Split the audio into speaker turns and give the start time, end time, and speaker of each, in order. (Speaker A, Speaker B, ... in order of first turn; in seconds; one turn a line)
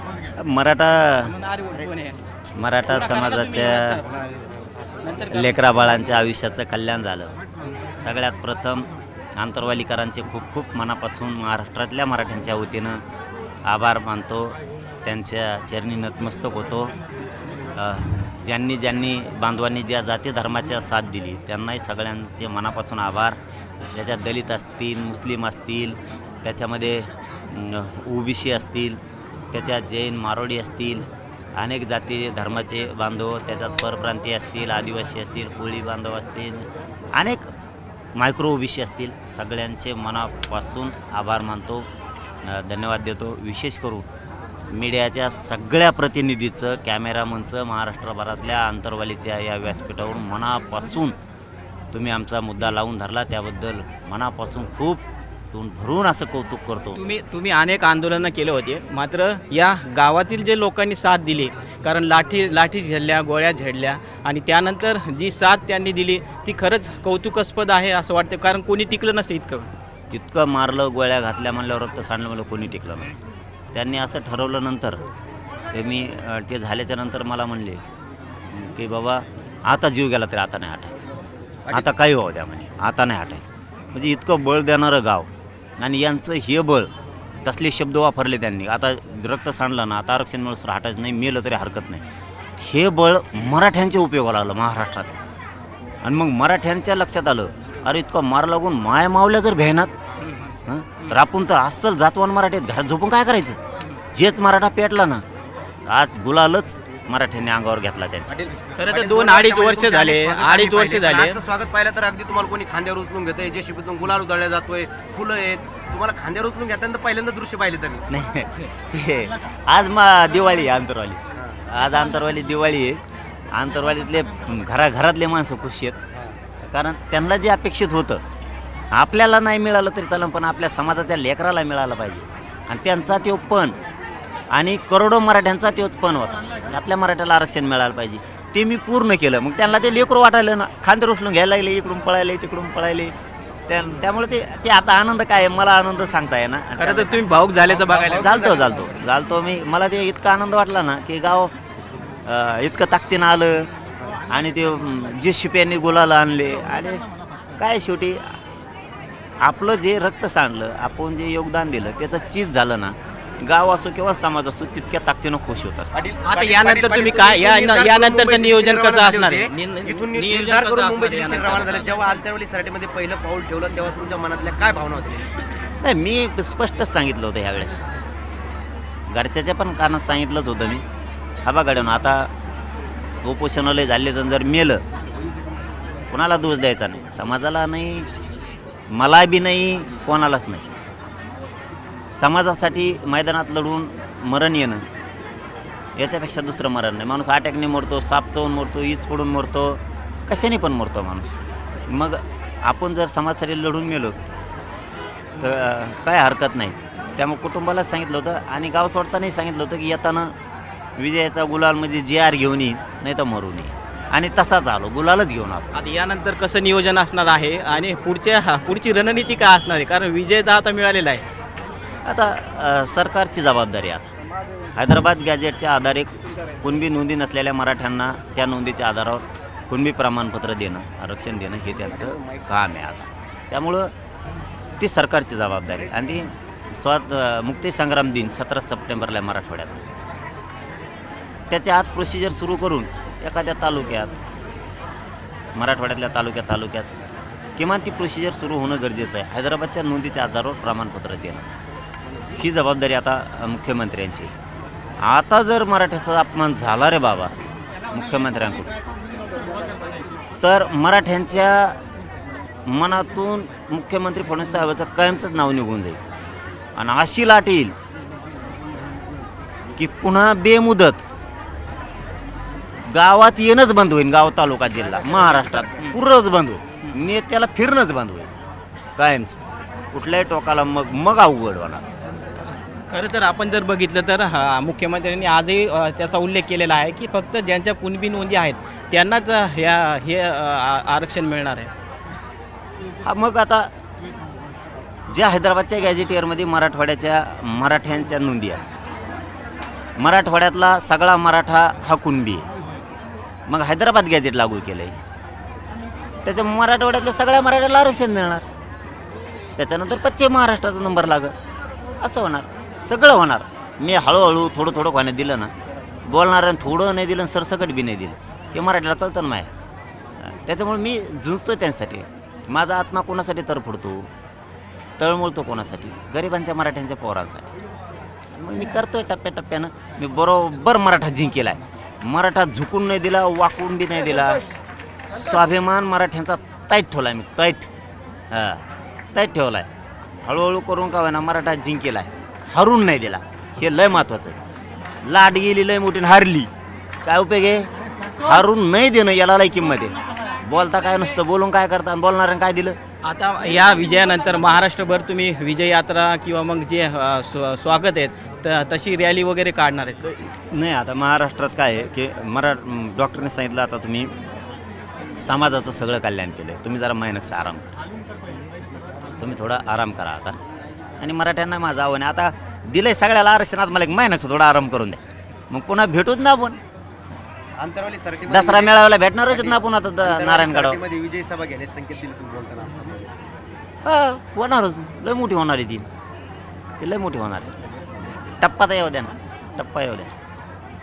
Speaker A: 0.4-1.3
Speaker B: 1.2-2.2
Speaker A: 2.5-4.0
Speaker B: 2.9-4.0
Speaker C: 4.0-4.6
Speaker B: 5.0-5.7
Speaker A: 5.3-7.3
Speaker A: 8.0-13.0
Speaker A: 13.7-16.9
Speaker A: 17.8-23.4
Speaker A: 23.9-29.0
Speaker A: 29.5-31.0
Speaker A: 31.6-37.4
Speaker A: 38.2-41.8
Speaker A: 42.5-44.0
Speaker A: 44.7-51.1
Speaker A: 51.9-57.0
Speaker B: 57.0-69.7
Speaker A: 70.1-73.2
Speaker A: 73.7-75.0
Speaker A: 75.7-77.8
Speaker A: 78.5-81.0
Speaker A: 81.7-85.3
Speaker A: 85.8-86.9
Speaker A: 87.4-92.0
Speaker A: 92.6-95.2
Speaker A: 96.0-99.9
Speaker A: 100.7-103.6
Speaker A: 104.1-105.2
Speaker A: 105.9-108.4
Speaker C: 108.3-118.1
Speaker B: 108.8-111.4
Speaker A: 118.1-123.0
Speaker A: 123.5-126.0
Speaker A: 126.7-128.2
Speaker A: 128.9-133.8
Speaker A: 134.5-143.1
Speaker A: 143.7-147.3
Speaker B: 146.8-148.3
Speaker C: 147.7-148.9
Speaker A: 148.1-151.5
Speaker A: 152.2-153.7
Speaker A: 154.3-157.0
Speaker A: 157.6-158.3
Speaker A: 159.4-165.9
Speaker C: 165.9-175.3
Speaker B: 166.2-172.0
Speaker A: 175.8-177.9
Speaker A: 179.1-180.8
Speaker A: 181.4-182.3
Speaker A: 183.2-184.8
Speaker A: 186.1-188.1
Speaker A: 188.9-190.7
Speaker A: 192.2-194.8
Speaker A: 196.0-204.2
Speaker A: 205.4-210.3
Speaker A: 211.0-215.7
Speaker B: 215.7-221.2
Speaker A: 222.1-224.1
Speaker A: 224.8-233.9
Speaker C: 232.0-232.4
Speaker A: 234.8-239.8
Speaker A: 241.5-244.2
Speaker A: 245.6-246.9
Speaker A: 247.6-251.4
Speaker A: 252.4-254.3
Speaker A: 255.0-257.3
Speaker A: 257.9-258.7
Speaker A: 260.4-261.8
Speaker A: 262.7-266.0
Speaker A: 266.8-267.7
Speaker A: 269.8-271.0
Speaker A: 272.9-278.3
Speaker A: 279.0-279.4
Speaker A: 279.9-281.8
Speaker B: 282.9-291.7
Speaker A: 293.0-293.7
Speaker A: 295.1-298.6
Speaker A: 300.0-302.5
Speaker A: 303.5-304.9
Speaker A: 306.2-308.5
Speaker A: 309.6-311.3
Speaker A: 312.0-315.5
Speaker A: 316.1-319.5
Speaker A: 320.2-324.1
Speaker A: 325.0-327.5
Speaker A: 328.3-334.4
Speaker A: 335.1-337.7
Speaker A: 338.3-339.7
Speaker A: 340.2-344.4
Speaker A: 345.0-346.5
Speaker A: 347.0-352.8
Speaker B: 353.0-360.0
Speaker A: 360.0-364.1
Speaker A: 365.2-367.8
Speaker A: 369.2-370.4
Speaker A: 371.0-376.6
Speaker C: 377.6-378.7
Speaker A: 378.3-380.8
Speaker C: 379.3-383.1
Speaker A: 383.8-385.9
Speaker A: 386.8-387.5
Speaker A: 388.4-390.1